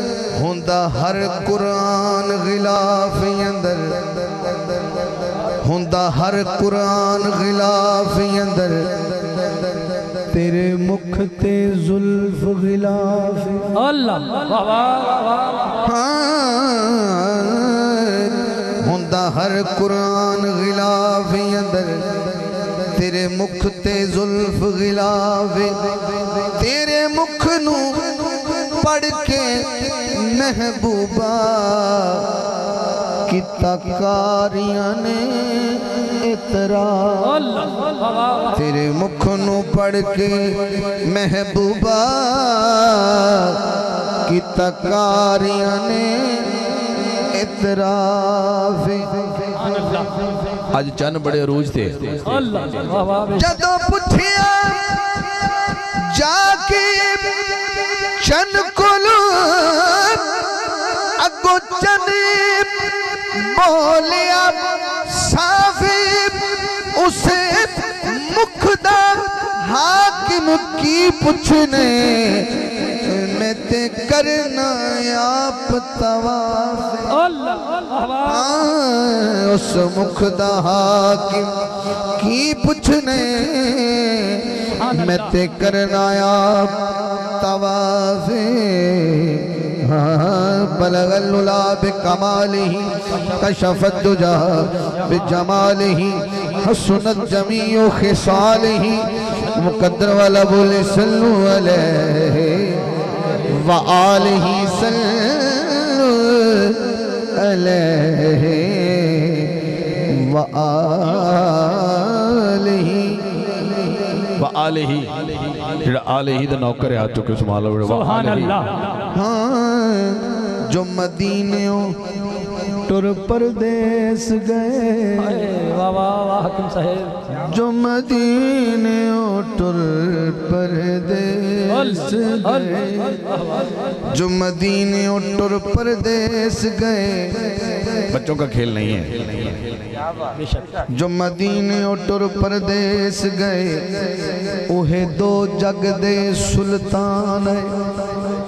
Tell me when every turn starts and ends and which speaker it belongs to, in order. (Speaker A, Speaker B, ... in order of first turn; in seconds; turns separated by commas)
Speaker A: 0.2-4.2, Speaker A: 5.6-9.6, Speaker A: 10.2-13.9, Speaker B: 13.9-15.2, Speaker A: 15.8-22.1, Speaker A: 22.9-25.8, Speaker A: 26.3-32.3, Speaker A: 33.3-37.6, Speaker A: 38.5-43.6, Speaker A: 44.2-49.8, Speaker C: 50.7-52.7, Speaker B: 52.4-53.4, Speaker A: 53.3-60.4, Speaker A: 60.9-77.3, Speaker B: 77.3-78.2, Speaker A: 78.1-81.5, Speaker A: 82.1-113.5, Speaker C: 114.4-118.7, Speaker B: 118.0-118.8, Speaker A: 119.1-122.0, Speaker A: 122.7-125.6, Speaker B: 125.2-127.2, Speaker A: 127.3-133.5, Speaker A: 134.1-137.6, Speaker C: 138.1-139.6, Speaker A: 140.9-147.8